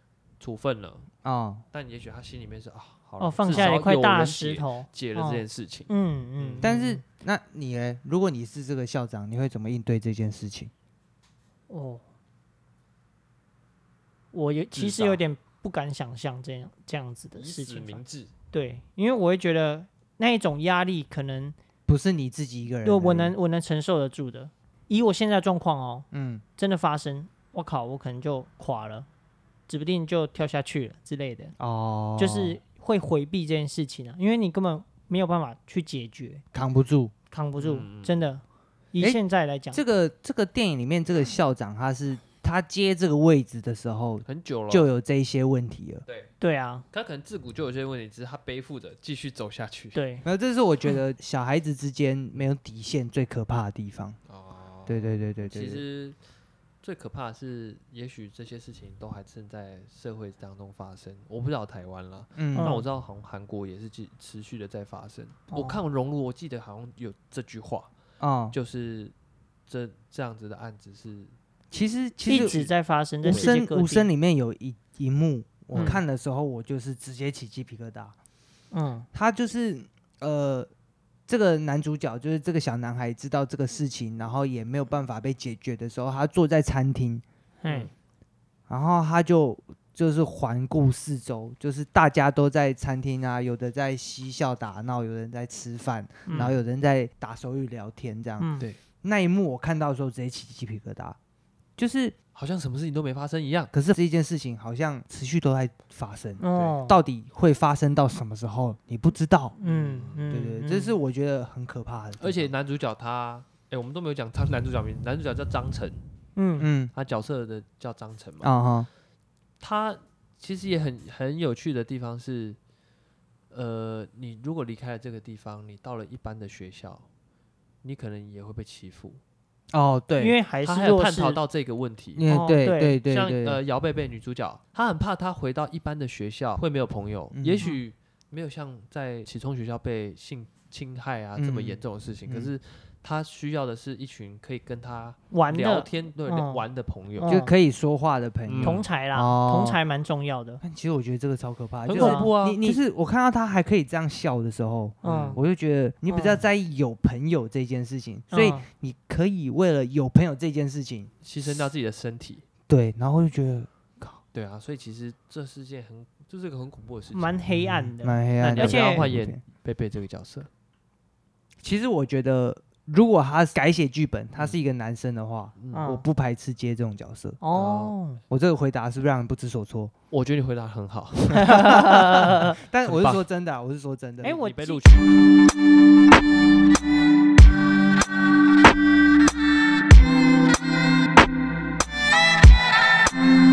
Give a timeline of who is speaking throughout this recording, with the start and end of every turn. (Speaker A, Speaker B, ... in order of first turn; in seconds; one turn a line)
Speaker A: 0.4-1.1
Speaker B: 1.2-1.6
Speaker A: 1.7-6.7
Speaker C: 3.2-7.0
Speaker B: 6.6-10.7
Speaker C: 11.7-12.0
Speaker C: 14.3-21.6
Speaker A: 14.7-15.2
Speaker A: 17.4-18.3
Speaker B: 21.9-23.3
Speaker C: 22.8-29.1
Speaker B: 26.1-26.4
Speaker C: 29.7-31.5
Speaker B: 31.6-32.6
Speaker C: 32.2-36.4
Speaker B: 36.5-37.1
Speaker C: 37.3-39.8
Speaker A: 37.6-38.2
Speaker B: 39.7-46.0
Speaker A: 44.2-44.9
Speaker A: 46.1-46.3
Speaker C: 46.4-46.9
Speaker A: 46.9-50.0
Speaker C: 49.9-50.2
Speaker B: 50.2-54.2
Speaker A: 54.2-56.2
Speaker B: 54.9-55.8
Speaker A: 56.8-67.9
Speaker B: 62.4-62.7
Speaker C: 62.5-62.9
Speaker C: 65.5-65.8
Speaker B: 68.2-68.5
Speaker A: 68.5-69.1
Speaker A: 69.7-71.3
Speaker B: 71.7-72.6
Speaker C: 72.2-74.1
Speaker A: 72.3-72.7
Speaker B: 73.2-78.1
Speaker C: 75.7-76.0
Speaker A: 75.7-76.0
Speaker C: 78.7-79.1
Speaker B: 79.1-80.7
Speaker B: 81.3-87.2
Speaker C: 87.6-87.9
Speaker B: 88.7-101.2
Speaker A: 96.3-96.6
Speaker C: 98.4-98.7
Speaker B: 101.8-102.1
Speaker A: 102.3-103.7
Speaker B: 103.7-109.5
Speaker C: 106.4-107.0
Speaker C: 109.5-111.0
Speaker A: 109.6-110.3
Speaker B: 110.3-112.5
Speaker A: 112.2-116.0
Speaker C: 116.3-116.7
Speaker B: 116.6-116.9
Speaker A: 116.9-118.6
Speaker B: 118.4-118.9
Speaker A: 119.6-122.6
Speaker A: 123.5-127.0
Speaker A: 127.8-129.2
Speaker B: 129.7-130.3
Speaker C: 130.2-131.4
Speaker A: 130.6-132.2
Speaker B: 132.2-133.6
Speaker C: 132.3-133.0
Speaker A: 133.1-147.3
Speaker B: 137.3-137.7
Speaker B: 141.4-142.5
Speaker C: 145.3-146.6
Speaker C: 147.2-147.5
Speaker B: 147.3-149.8
Speaker A: 148.5-148.8
Speaker C: 148.6-150.6
Speaker B: 150.6-161.7
Speaker A: 151.8-152.8
Speaker C: 151.9-152.3
Speaker C: 155.0-155.4
Speaker A: 155.0-155.4
Speaker C: 156.1-156.5
Speaker C: 158.3-158.7
Speaker A: 161.2-162.4
Speaker B: 162.7-164.2
Speaker A: 164.3-167.4
Speaker C: 167.1-169.1
Speaker B: 167.5-169.4
Speaker A: 168.4-170.5
Speaker B: 171.6-177.4
Speaker A: 175.6-175.8
Speaker C: 175.7-176.1
Speaker C: 177.4-178.2
Speaker A: 177.5-177.9
Speaker B: 178.3-179.9
Speaker A: 180.1-183.2
Speaker C: 181.4-182.5
Speaker B: 181.4-184.4
Speaker C: 184.2-185.0
Speaker A: 184.3-185.3